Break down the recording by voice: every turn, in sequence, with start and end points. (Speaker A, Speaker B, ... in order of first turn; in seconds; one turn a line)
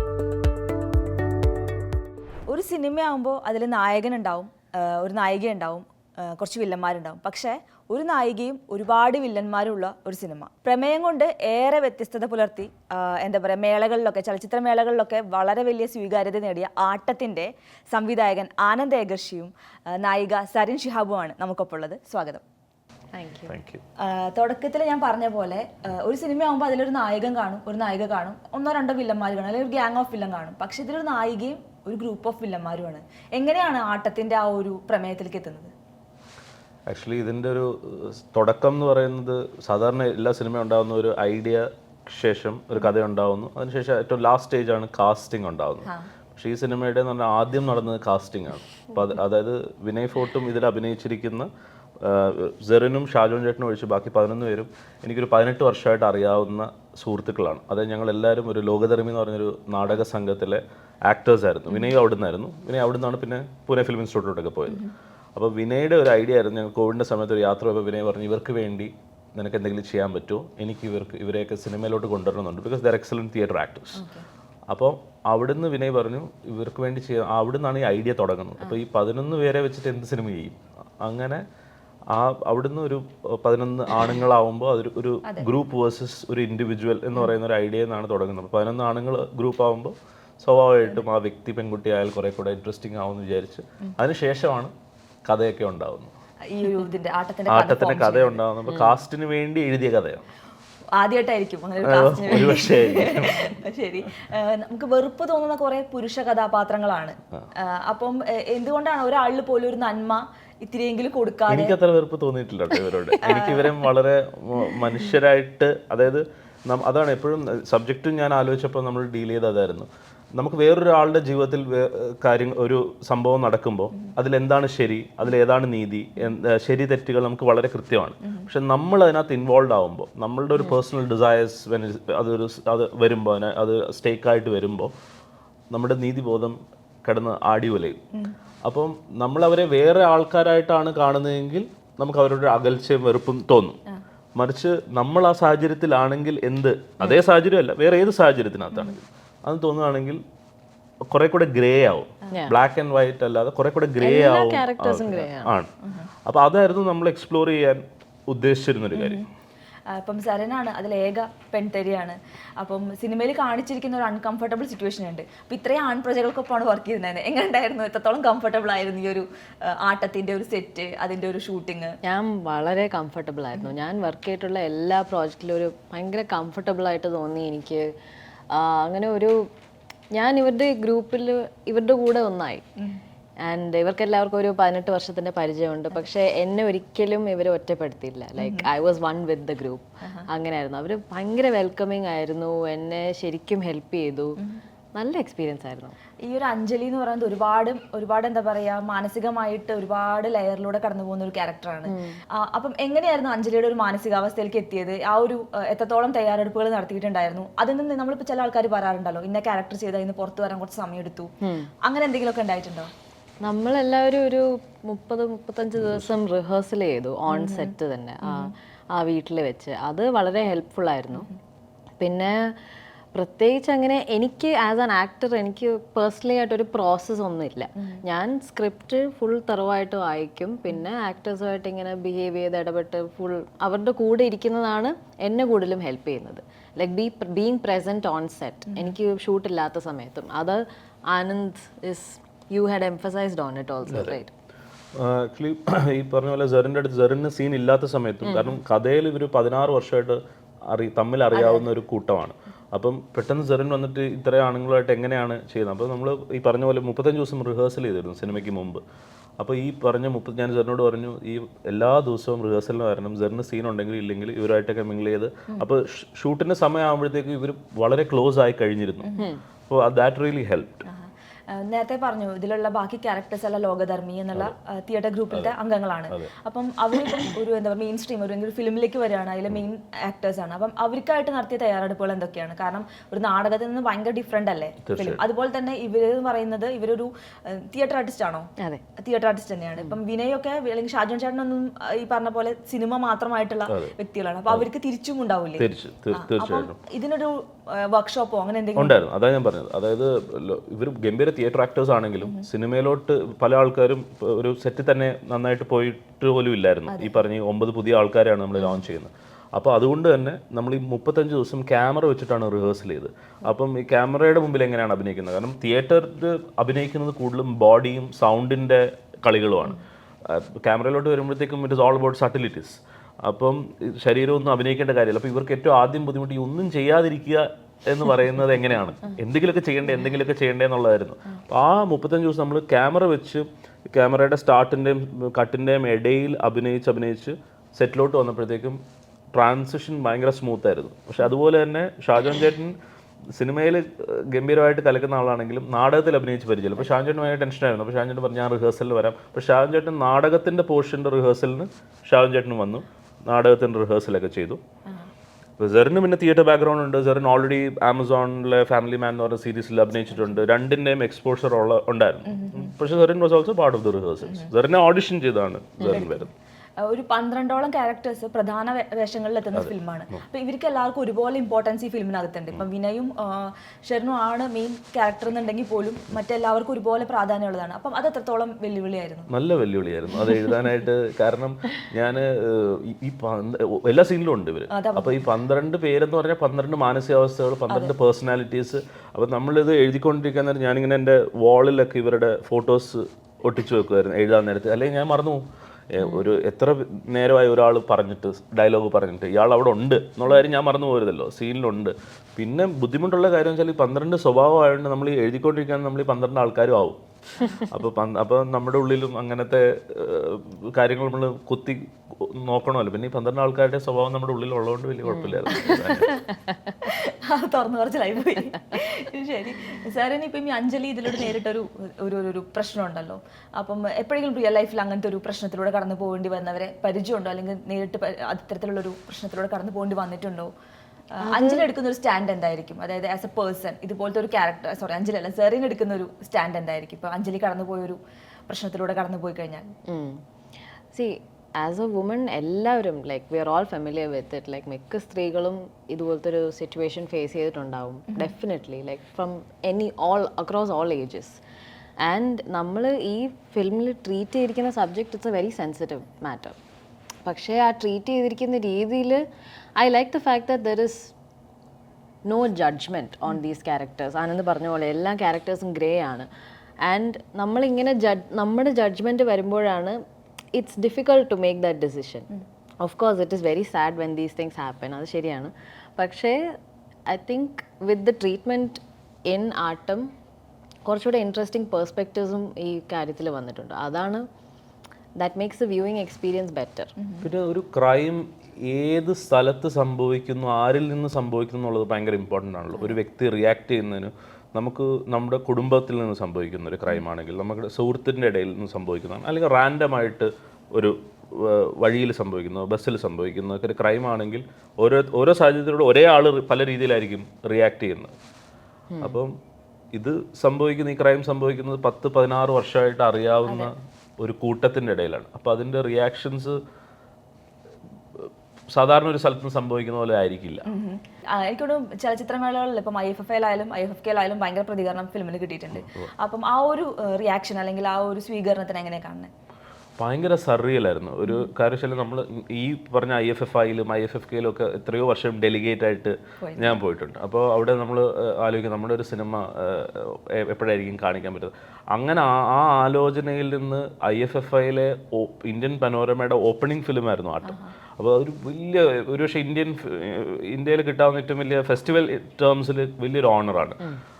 Speaker A: 2.5-22.4
Speaker B: 23.1-23.6
Speaker C: 23.4-23.8
Speaker A: 24.1-35.7
Speaker C: 36.9-64.8
Speaker A: 61.7-62.0
Speaker A: 64.7-64.9
Speaker C: 65.3-74.0
Speaker A: 74.0-74.2
Speaker C: 74.7-81.4
Speaker C: 82.1-94.7
Speaker C: 95.2-96.1
Speaker A: 96.5-98.4
Speaker C: 97.5-100.2
Speaker B: 98.7-99.0
Speaker A: 101.0-111.8
Speaker C: 101.8-103.5
Speaker C: 111.5-134.9
Speaker A: 113.2-113.9
Speaker A: 128.2-128.5
Speaker B: 130.6-130.8
Speaker C: 135.7-138.0
Speaker C: 138.7-143.8
Speaker C: 144.4-150.2
Speaker C: 151.1-155.7
Speaker B: 154.0-155.5
Speaker A: 155.8-156.1
Speaker C: 156.2-159.2
Speaker A: 158.9-159.3
Speaker A: 159.9-172.0
Speaker B: 172.0-177.9
Speaker B: 178.5-179.4
Speaker B: 180.1-182.7
Speaker B: 183.4-194.4
Speaker A: 188.4-188.7
Speaker B: 194.9-195.9
Speaker A: 196.2-211.3
Speaker B: 201.9-202.2
Speaker B: 211.4-211.7
Speaker A: 211.8-212.9
Speaker B: 213.4-221.3
Speaker C: 215.8-216.1
Speaker A: 217.3-218.5
Speaker B: 222.0-222.6
Speaker B: 223.1-244.3
Speaker A: 238.7-239.0
Speaker C: 243.8-244.2
Speaker C: 244.9-258.8
Speaker B: 248.2-248.6
Speaker A: 251.3-251.7
Speaker C: 259.4-269.1
Speaker A: 269.0-269.3
Speaker C: 269.7-270.8
Speaker A: 270.9-299.0
Speaker C: 284.9-285.2
Speaker C: 293.7-293.9
Speaker C: 295.6-296.8
Speaker C: 298.8-338.8
Speaker A: 302.2-302.5
Speaker A: 306.9-307.2
Speaker A: 308.6-308.8
Speaker C: 339.3-342.8
Speaker C: 343.3-354.6
Speaker C: 355.6-366.3
Speaker A: 360.1-360.4
Speaker A: 362.2-362.7
Speaker A: 364.2-364.5
Speaker A: 365.8-366.3
Speaker A: 366.8-379.3
Speaker C: 379.3-407.0
Speaker A: 384.7-385.2
Speaker A: 387.7-387.9
Speaker C: 407.7-416.1
Speaker B: 415.1-416.7
Speaker A: 415.5-415.8
Speaker A: 416.8-430.5
Speaker B: 431.2-431.7
Speaker A: 431.2-439.7
Speaker B: 439.9-440.2
Speaker B: 440.9-451.4
Speaker B: 452.0-456.6
Speaker B: 457.2-459.2
Speaker B: 459.8-461.1
Speaker B: 462.3-466.3
Speaker B: 466.8-470.0
Speaker B: 470.5-472.3
Speaker B: 472.8-476.4
Speaker B: 477.1-480.1
Speaker B: 480.9-484.2
Speaker B: 485.2-486.9
Speaker A: 487.0-487.3
Speaker C: 487.2-508.1
Speaker B: 508.9-509.2
Speaker C: 509.0-509.3
Speaker C: 509.9-516.6
Speaker A: 513.5-513.7
Speaker C: 518.2-520.6
Speaker A: 520.7-529.3
Speaker C: 525.7-526.1
Speaker C: 530.0-553.8
Speaker A: 536.4-536.8
Speaker A: 547.5-547.8